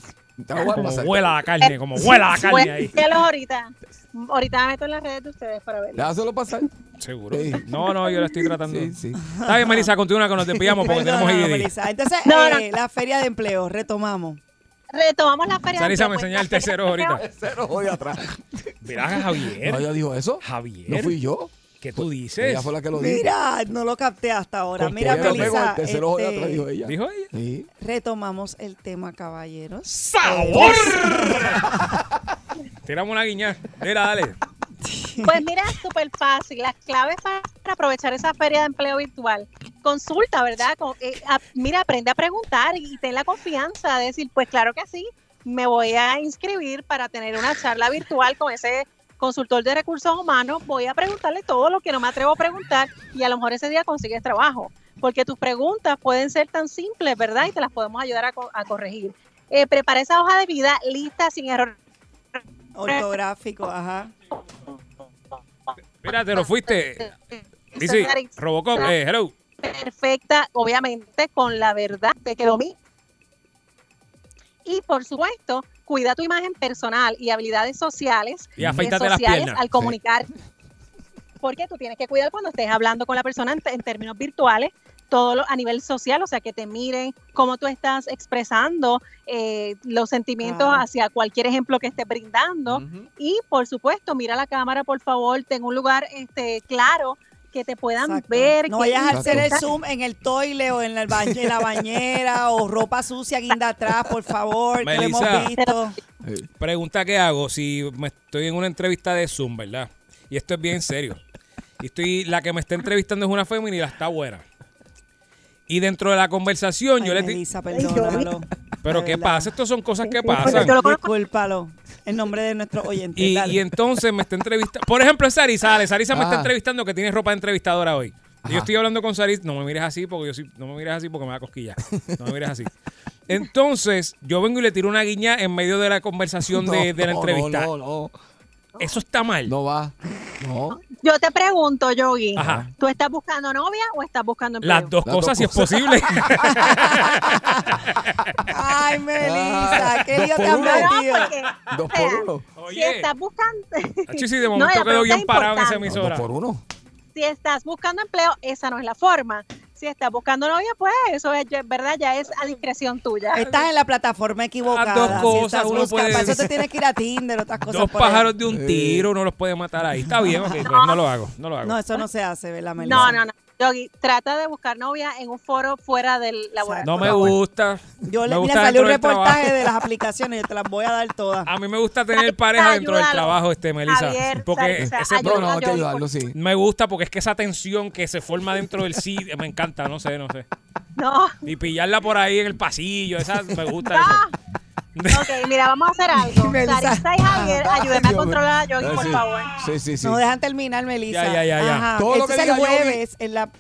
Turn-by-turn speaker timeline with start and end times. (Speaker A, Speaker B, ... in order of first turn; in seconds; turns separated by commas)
Speaker A: 0.4-1.4, Speaker B: 0.7-3.0, Speaker C: 1.6-6.1, Speaker A: 6.0-6.7, Speaker B: 7.0-11.7, Speaker A: 7.3-9.2, Speaker D: 9.2-9.9, Speaker D: 10.8-14.4, Speaker C: 12.2-12.7, Speaker C: 14.9-17.2, Speaker B: 15.8-17.2, Speaker A: 17.2-18.7, Speaker B: 18.8-19.9, Speaker A: 19.6-23.3, Speaker B: 20.4-21.2, Speaker B: 21.8-22.7, Speaker D: 22.9-26.6, Speaker A: 24.8-27.7, Speaker B: 24.8-25.6, Speaker B: 26.9-27.3, Speaker D: 27.8-31.9, Speaker B: 29.9-31.6, Speaker B: 32.9-34.4, Speaker D: 34.8-35.4, Speaker C: 35.2-61.8, Speaker D: 62.8-64.1, Speaker B: 66.0-67.1, Speaker C: 67.7-68.9, Speaker B: 67.8-69.3, Speaker C: 69.6-72.8, Speaker C: 74.7-80.3, Speaker A: 78.6-78.9, Speaker B: 78.6-79.6, Speaker C: 81.4-99.6, Speaker D: 90.4-90.8, Speaker A: 92.7-93.1, Speaker D: 98.0-106.0, Speaker A: 99.1-99.6, Speaker B: 104.8-105.5, Speaker A: 106.2-106.5, Speaker B: 106.6-111.2, Speaker B: 111.8-114.4, Speaker B: 115.7-117.4, Speaker D: 117.0-119.5, Speaker C: 117.7-118.3, Speaker B: 118.8-120.7, Speaker C: 120.0-121.1, Speaker D: 120.3-123.6, Speaker B: 123.2-132.7, Speaker A: 126.1-126.5, Speaker A: 128.4-128.7, Speaker B: 133.3-137.7, Speaker A: 136.5-138.1, Speaker B: 138.8-139.5, Speaker A: 139.5-140.8, Speaker C: 140.8-144.9, Speaker B: 142.4-142.7, Speaker A: 142.4-142.7, Speaker B: 144.6-148.4, Speaker A: 145.1-146.3, Speaker D: 146.4-147.7, Speaker D: 148.5-151.3, Speaker A: 149.2-150.9, Speaker C: 150.5-155.9, Speaker A: 151.7-152.5, Speaker B: 152.6-153.1, Speaker B: 154.1-156.3, Speaker A: 155.9-156.6, Speaker C: 157.2-163.4, Speaker D: 163.3-168.3, Speaker B: 163.4-163.6, Speaker B: 164.7-166.5, Speaker A: 165.0-165.4, Speaker B: 167.7-171.8, Speaker A: 168.5-169.1, Speaker D: 170.3-170.6, Speaker C: 170.6-171.0, Speaker D: 171.6-173.2, Speaker C: 172.8-177.4, Speaker D: 176.6-177.3, Speaker B: 176.8-179.7, Speaker D: 178.0-181.5, Speaker B: 181.5-185.8, Speaker C: 182.1-186.1, Speaker A: 184.8-186.3, Speaker B: 186.3-190.5, Speaker C: 191.0-191.3, Speaker B: 191.4-194.2, Speaker C: 193.8-194.3, Speaker B: 195.0-195.5, Speaker C: 195.1-199.5, Speaker D: 196.1-198.3, Speaker A: 197.7-200.2, Speaker D: 200.0-203.5, Speaker B: 201.1-201.9, Speaker A: 202.0-203.0